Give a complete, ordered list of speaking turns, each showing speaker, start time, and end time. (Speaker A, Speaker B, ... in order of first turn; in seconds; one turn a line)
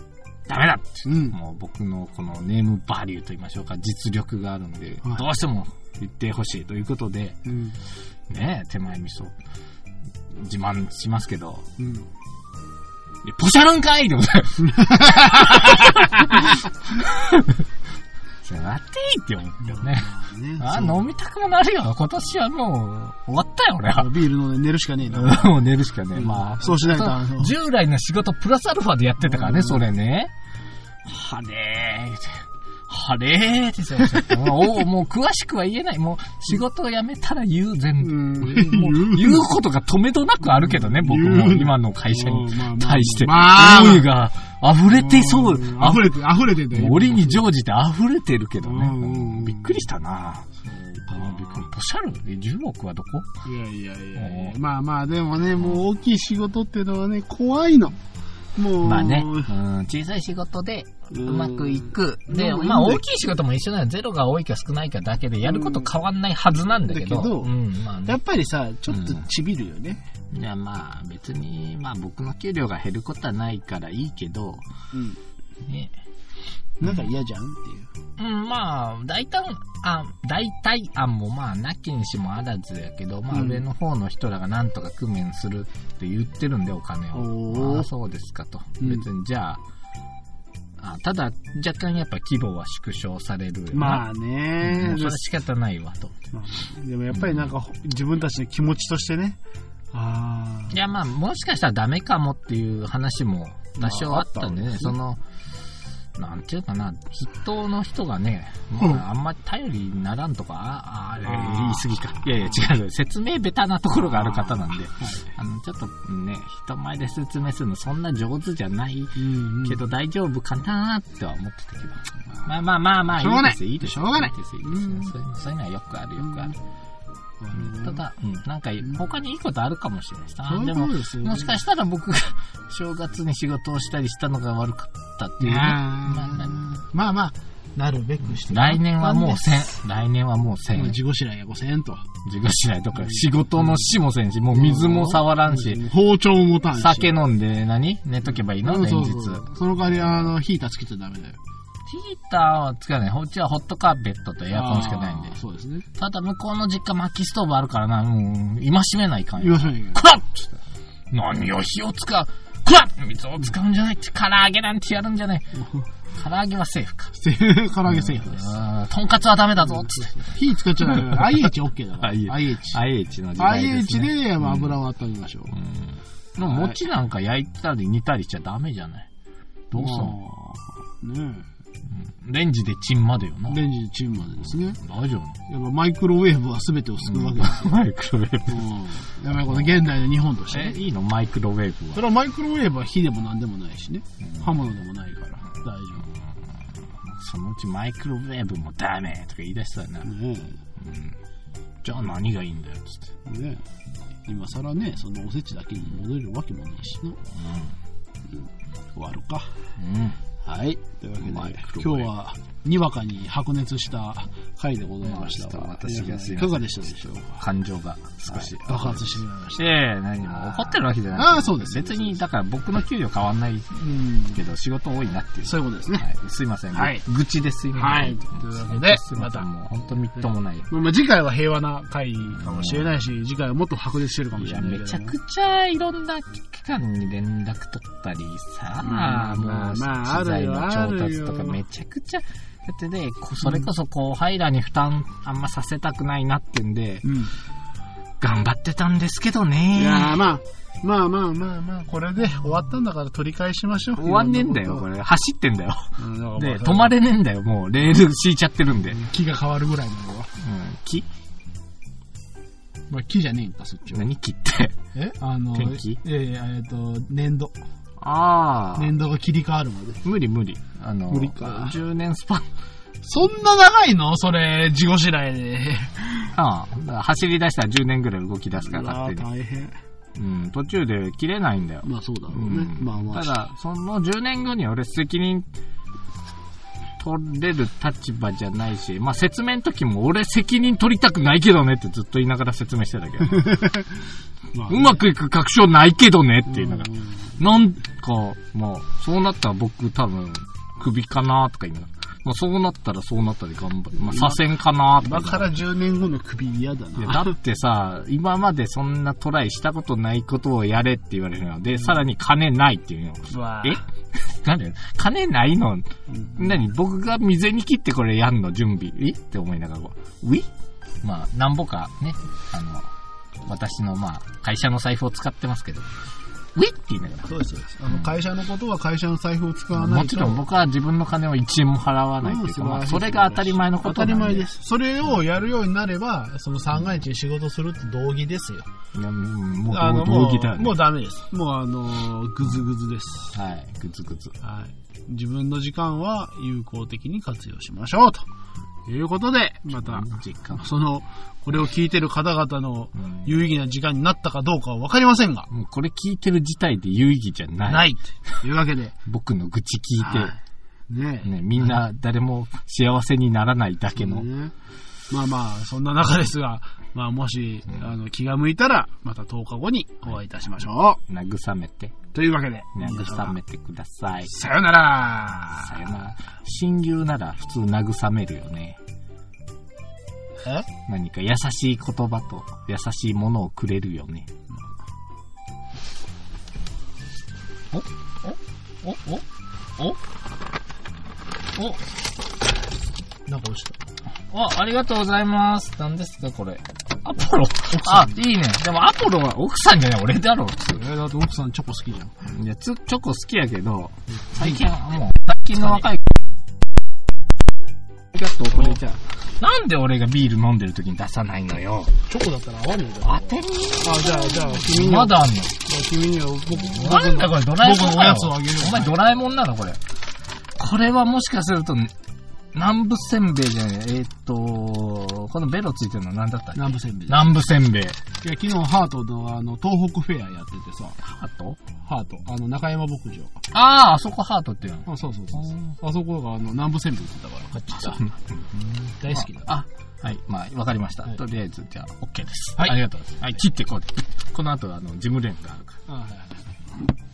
Speaker A: 0.5-7.4
Speaker B: 1.1-1.4
Speaker B: 7.5-7.8
Speaker A: 8.3-9.3
Speaker A: 10.3-11.7
Speaker B: 11.8-12.1
Speaker A: 13.2-17.6
Speaker B: 14.6-16.6
Speaker A: 18.4-24.1
Speaker B: 19.6-21.1
Speaker B: 23.9-25.6
Speaker A: 25.1-30.3
Speaker B: 26.1-27.6
Speaker B: 29.2-29.9
Speaker A: 31.1-50.6
Speaker B: 38.0-39.5
Speaker B: 40.6-44.1
Speaker B: 44.9-47.5
Speaker B: 48.6-49.9
Speaker B: 50.6-51.7
Speaker A: 51.1-53.3
Speaker B: 53.4-58.0
Speaker A: 54.2-54.6
Speaker A: 55.6-55.8
Speaker B: 58.6-59.5
Speaker A: 58.8-68.2
Speaker B: 61.1-63.0
Speaker B: 65.4-65.9
Speaker B: 66.8-67.5
Speaker B: 68.0-70.0
Speaker A: 68.9-69.2
Speaker A: 70.3-74.7
Speaker B: 74.9-75.2
Speaker A: 75.7-75.9
Speaker B: 76.8-77.9
Speaker A: 78.2-89.6
Speaker B: 83.3-83.6
Speaker B: 87.1-87.9
Speaker B: 88.8-89.1
Speaker A: 90.8-94.0
Speaker B: 93.7-95.2
Speaker A: 94.6-96.2
Speaker B: 96.3-99.4
Speaker A: 97.1-97.5
Speaker B: 99.9-100.8
Speaker A: 100.7-105.2
Speaker B: 103.8-105.0
Speaker A: 106.2-126.5
Speaker B: 108.8-109.0
Speaker B: 111.2-111.9
Speaker B: 114.2-115.2
Speaker B: 119.2-119.8
Speaker B: 123.1-125.1
Speaker B: 126.2-126.5
Speaker B: 127.4-128.0
Speaker A: 127.5-136.6
Speaker B: 130.5-131.5
Speaker B: 135.4-139.7
Speaker A: 138.4-141.0
Speaker B: 140.8-142.1
Speaker A: 142.2-145.8
Speaker B: 143.0-143.9
Speaker B: 144.5-147.2
Speaker A: 146.7-150.3
Speaker B: 148.6-151.4
Speaker A: 151.9-155.4
Speaker B: 154.5-155.9
Speaker A: 156.0-160.6
Speaker B: 159.4-160.0
Speaker A: 161.1-165.5
Speaker A: 166.1-167.2
Speaker B: 167.2-168.6
Speaker A: 167.9-170.3
Speaker B: 169.7-172.8
Speaker A: 170.8-171.4
Speaker A: 172.0-174.8
Speaker B: 173.4-175.5
Speaker A: 175.5-179.1
Speaker B: 176.5-176.8
Speaker A: 179.7-180.2
Speaker B: 179.8-181.5
Speaker A: 181.9-183.6
Speaker B: 183.5-184.8
Speaker A: 184.8-185.4
Speaker B: 185.5-187.7
Speaker A: 187.0-188.7
Speaker B: 188.5-190.8
Speaker A: 189.3-189.9
Speaker A: 190.5-192.1
Speaker B: 191.9-196.1
Speaker A: 194.2-194.7
Speaker A: 197.0-200.1
Speaker B: 200.1-200.6
Speaker A: 200.8-201.2
Speaker A: 201.8-203.1
Speaker B: 203.2-203.6
Speaker B: 204.3-207.2
Speaker A: 207.3-207.8
Speaker B: 208.3-209.6
Speaker A: 209.8-210.2
Speaker B: 210.4-217.4
Speaker A: 211.2-212.1
Speaker A: 215.0-230.7
Speaker B: 218.3-219.6
Speaker B: 220.3-222.2
Speaker B: 223.8-224.4
Speaker B: 225.4-226.1
Speaker B: 226.7-227.0
Speaker B: 227.7-229.5
Speaker B: 230.7-235.2
Speaker A: 232.4-232.9
Speaker A: 234.4-247.3
Speaker B: 238.8-241.6
Speaker B: 243.4-243.7
Speaker B: 247.0-247.3
Speaker A: 248.2-250.2
Speaker B: 249.7-254.9
Speaker A: 254.0-259.0
Speaker B: 256.0-256.9
Speaker B: 258.9-260.3
Speaker A: 260.4-261.1
Speaker B: 262.9-264.1
Speaker A: 263.9-264.8
Speaker B: 264.9-267.6
Speaker A: 265.5-266.0
Speaker A: 268.0-268.9
Speaker B: 268.8-270.0
Speaker A: 270.0-272.5
Speaker B: 271.1-271.8
Speaker B: 273.0-276.4
Speaker A: 276.4-279.3
Speaker B: 278.6-279.8
Speaker A: 280.2-285.5
Speaker B: 281.8-283.3
Speaker A: 287.0-293.7
Speaker B: 293.3-294.0
Speaker B: 294.5-295.0
Speaker A: 294.7-305.6
Speaker B: 296.5-297.2
Speaker B: 304.0-304.4
Speaker B: 305.0-307.4
Speaker A: 307.0-320.5
Speaker B: 313.3-313.8
Speaker B: 316.1-316.6
Speaker A: 321.0-322.9
Speaker A: 323.4-325.9
Speaker A: 326.6-327.3
Speaker B: 327.2-330.4
Speaker A: 329.7-334.5
Speaker B: 332.2-338.7
Speaker A: 338.9-340.8
Speaker B: 339.7-343.4
Speaker A: 343.3-344.4
Speaker B: 344.4-348.3
Speaker B: 348.9-355.5
Speaker A: 349.7-350.6
Speaker A: 353.0-353.3
Speaker A: 355.5-358.4
Speaker B: 357.7-358.9
Speaker A: 359.1-360.4
Speaker B: 360.0-360.4
Speaker B: 360.9-361.8
Speaker A: 361.2-364.3
Speaker B: 364.0-364.5
Speaker B: 365.1-371.0
Speaker A: 371.1-372.0
Speaker B: 372.1-373.4
Speaker A: 372.8-374.3
Speaker B: 374.3-376.0
Speaker A: 375.6-378.8
Speaker B: 380.4-380.7
Speaker A: 380.9-384.3
Speaker A: 387.7-389.2
Speaker A: 391.6-391.8
Speaker B: 393.3-393.8
Speaker A: 394.3-400.9
Speaker B: 397.7-398.2
Speaker B: 400.7-402.1
Speaker A: 402.2-406.1
Speaker B: 404.4-404.7
Speaker A: 408.1-411.9
Speaker B: 408.4-408.9
Speaker B: 412.1-419.0
Speaker A: 413.0-415.6
Speaker A: 416.5-419.8
Speaker A: 420.6-421.9
Speaker A: 422.5-428.0
Speaker B: 426.6-427.3
Speaker B: 428.2-431.0
Speaker A: 431.0-431.6
Speaker B: 431.8-433.4
Speaker A: 433.5-435.8
Speaker B: 434.9-438.0
Speaker A: 437.7-445.8
Speaker B: 439.0-439.5
Speaker B: 445.9-446.5